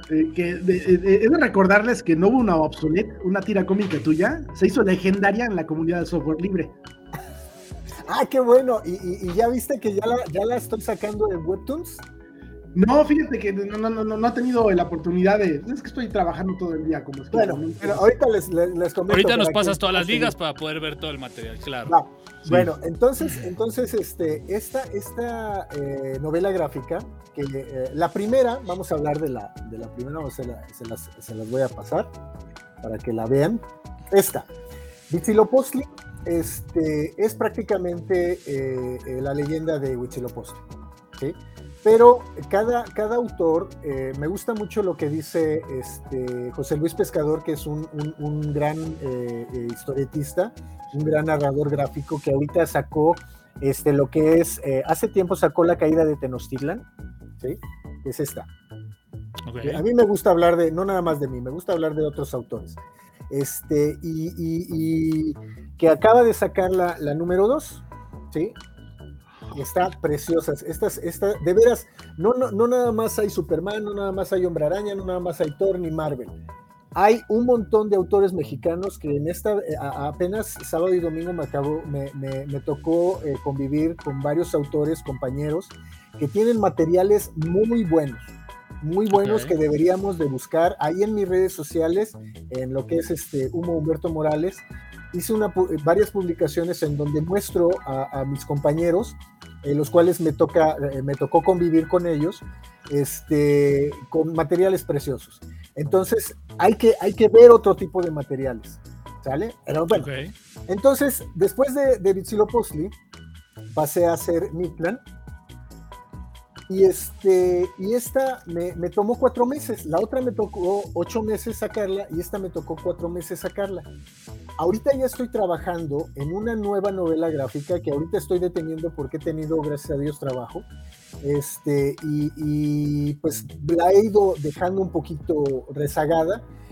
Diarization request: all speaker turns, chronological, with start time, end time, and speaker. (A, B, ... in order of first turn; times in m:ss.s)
0:00.1-0:06.7 A
0:08.0-0:12.0 B
0:12.7-0:18.1 A
0:17.3-0:20.3 B
0:19.1-0:22.0 C
0:21.9-0:32.1 B
0:32.8-0:34.5 B
0:35.1-0:40.6 B
0:41.2-0:56.8 B
0:57.4-0:58.5 B
0:59.4-0:59.8 C
0:59.6-1:02.8 B
1:03.3-1:08.6 B
1:09.5-1:16.3 B
1:16.9-1:50.1 B
1:29.1-1:29.5 C
1:49.9-1:50.3 C
1:50.7-1:52.9 B
1:53.7-1:55.0 B
1:56.7-2:03.9 B
2:04.6-2:10.6 B
2:11.2-2:16.4 B